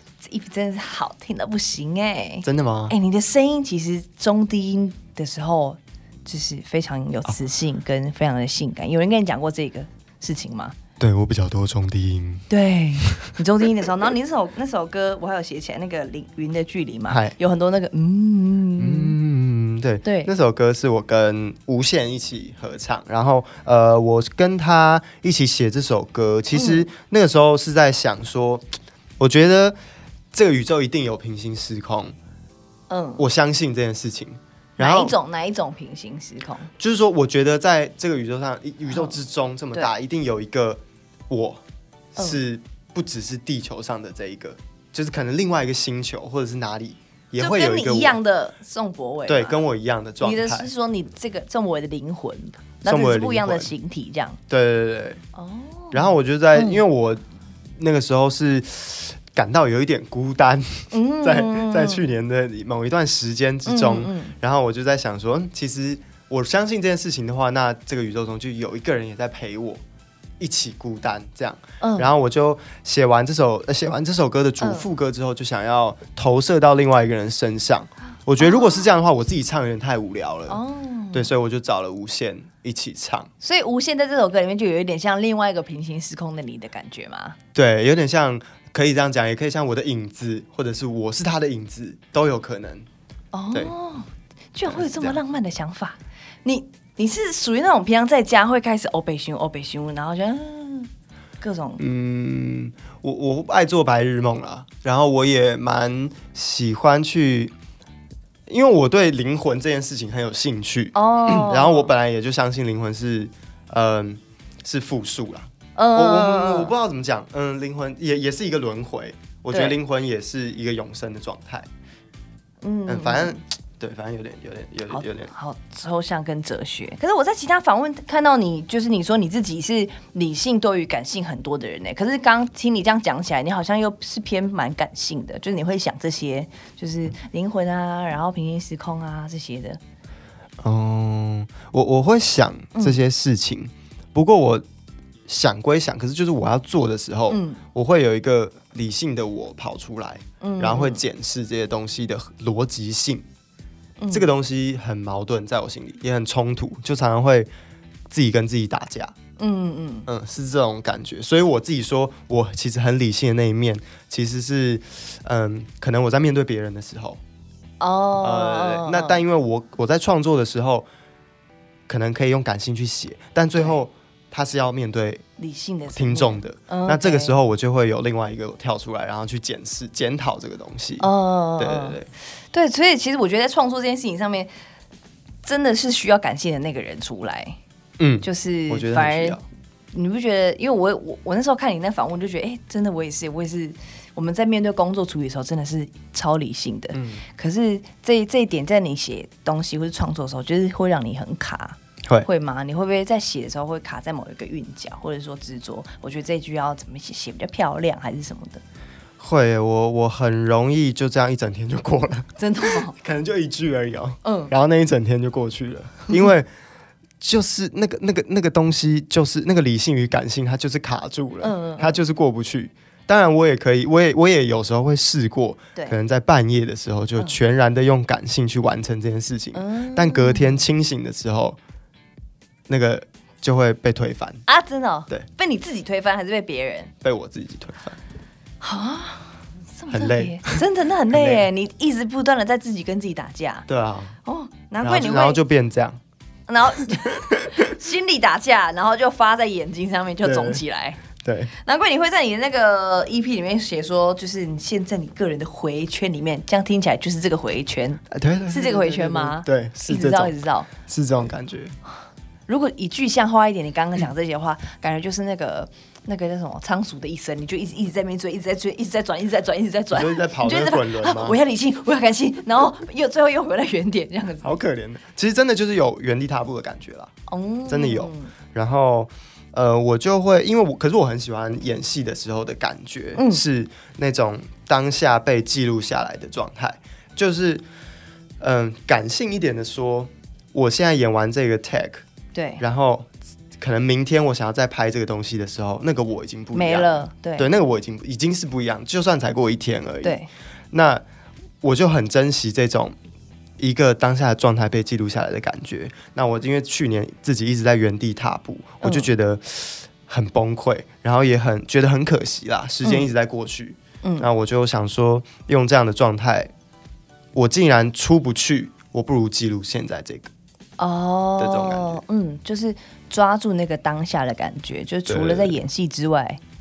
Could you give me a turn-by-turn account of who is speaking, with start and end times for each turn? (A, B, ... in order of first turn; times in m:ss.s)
0:00.2-0:10.7 A
0:02.4-0:03.0 B
0:11.0-0:12.5 B
0:12.5-0:19.2 A
0:13.0-0:13.3 B
0:17.1-0:17.3 B
0:18.8-0:28.6 B
0:20.0-0:20.3 A
0:26.5-0:26.9 A
0:29.2-0:29.8 B
0:30.3-0:32.1 B
0:32.9-0:33.2 A
0:33.2-0:35.2 B
0:34.8-0:36.7 A
0:36.8-0:41.6 B
0:38.9-0:39.2 A
0:42.1-0:48.2 B
0:47.4-0:49.6 A
0:49.3-0:50.7 B
0:50.2-0:54.4 A
0:52.8-0:53.7 B
0:54.5-0:55.2 B
0:55.3-0:56.8 A
0:55.9-0:57.2 B
0:57.8-1:09.8 B
1:00.9-1:02.0 A
1:03.6-1:04.3 A
1:10.4-1:20.6 B
1:11.8-1:12.1 A
1:14.6-1:14.9 A
1:18.4-1:18.9 A
1:20.5-1:21.3 A
1:21.1-1:23.3 B
1:23.4-1:27.4 A
1:27.5-1:32.9 B
1:33.3-1:40.9 A
1:34.6-1:35.2 B
1:41.4-1:41.8 A
1:41.8-1:47.5 B
1:48.5-2:01.7 B
1:50.9-1:51.9 A
1:55.8-1:56.7 A
1:59.5-1:59.8 A
2:02.6-2:03.4 A
2:02.9-2:05.3 B
2:04.9-2:19.8 A
2:20.6-2:24.6 B
2:22.7-2:23.0 A
2:25.3-2:33.2 B
2:27.3-2:27.6 A
2:30.4-2:31.0 A
2:34.0-2:34.3 A
2:34.1-2:37.5 B
2:38.1-2:39.1 B
2:39.4-2:40.1 A
2:40.1-2:47.2 B
2:47.8-2:49.2 A
2:48.2-2:50.8 B
2:51.9-2:55.2 B
2:55.4-2:57.3 A
2:55.9-3:02.1 B
3:01.0-3:02.0 A
3:02.5-3:04.5 A
3:05.4-3:07.6 A
3:08.0-3:09.4 B
3:08.2-3:09.4 A
3:09.9-3:28.6 A
3:16.9-3:17.2 B
3:29.2-3:36.5 B
3:32.4-3:32.9 A
3:34.2-3:34.5 A
3:37.2-3:51.6 B
3:41.4-3:42.0 A
3:49.5-3:50.6 A
3:52.7-3:54.4 B
3:54.4-3:56.9 A
3:57.0-3:58.0 B
3:58.6-4:03.7 A
3:59.9-4:01.5 B
4:03.7-4:04.2 B
4:04.2-4:05.4 A
4:04.8-4:06.0 B
4:06.5-4:11.0 A
4:06.7-4:07.6 B
4:10.2-4:10.6 B
4:11.1-4:11.5 B
4:11.5-4:20.7 A
4:18.1-4:21.8 B
4:22.5-4:34.5 A
4:29.9-4:31.4 B
4:34.4-4:37.1 B
4:37.3-4:38.3 A
4:37.7-4:47.6 B
4:43.2-4:43.4 A
4:48.4-4:52.0 B
4:52.3-4:52.6 A
4:52.6-5:00.2 B
4:56.5-4:57.5 A
5:00.0-5:00.3 A
5:00.7-5:01.0 B
5:01.6-5:02.9 B
5:03.6-5:16.5 B
5:08.8-5:09.1 A
5:12.8-5:13.1 A
5:14.0-5:14.3 A
5:17.3-5:20.3 B
5:20.8-5:26.4 A
5:21.4-5:22.0 B
5:25.1-5:25.6 B